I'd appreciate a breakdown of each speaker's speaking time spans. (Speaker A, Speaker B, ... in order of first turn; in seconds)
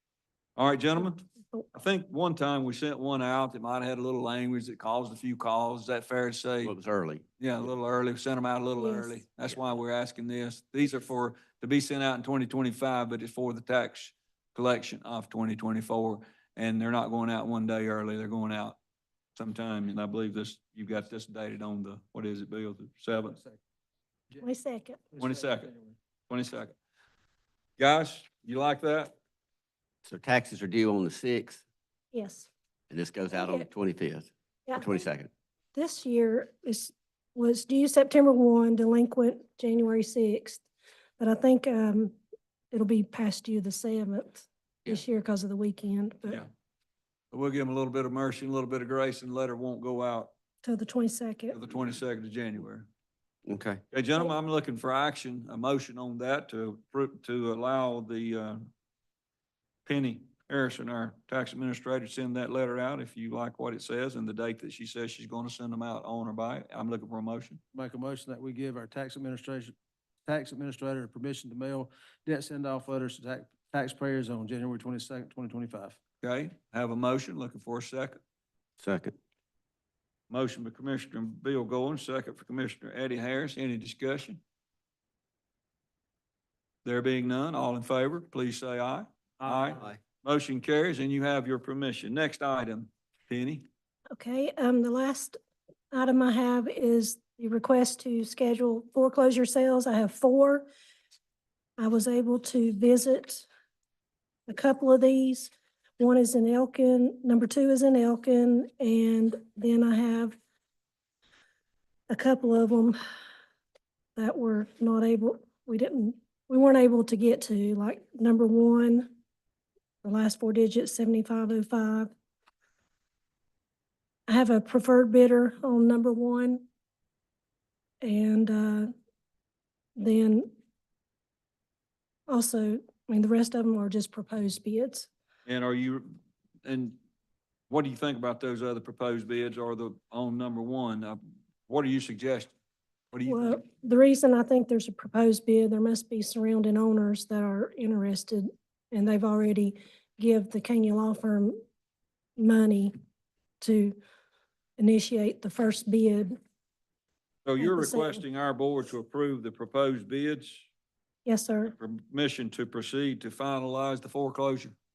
Speaker A: 0.6-6.7, 7.4-18.8, 19.4-23.4, 25.2-25.7, 26.3-26.7, 27.8-29.1, 47.3-50.3, 51.5-52.9, 53.9-58.7, 59.8-67.6, 76.2-78.2, 80.3-84.4, 86.8-93.7, 135.4-137.0, 137.7-142.5, 143.1-143.6, 157.4-160.7, 161.7-164.7
Speaker B: 1.0-1.7, 8.8-9.2, 24.4-25.1, 32.1-32.5, 33.3-33.7, 34.7-35.0, 35.7-40.6, 41.2-42.1, 42.7-46.4, 50.6-51.6, 94.1-95.3, 95.9-100.7, 101.8-103.5, 104.5-110.4, 112.1-113.0, 114.2-119.1, 120.0-122.1, 124.3-126.6, 128.0-128.9, 130.0-130.5, 132.3-135.1, 143.2-151.6, 152.4-152.9, 153.6-154.0, 154.8-156.4, 157.6-158.2, 161.2-161.8
Speaker C: 6.6-7.2, 30.0-31.6, 32.9-35.3, 53.5-53.8, 78.8-79.2
Speaker D: 23.3-23.6, 25.1-25.9, 67.7-69.7, 70.2-76.0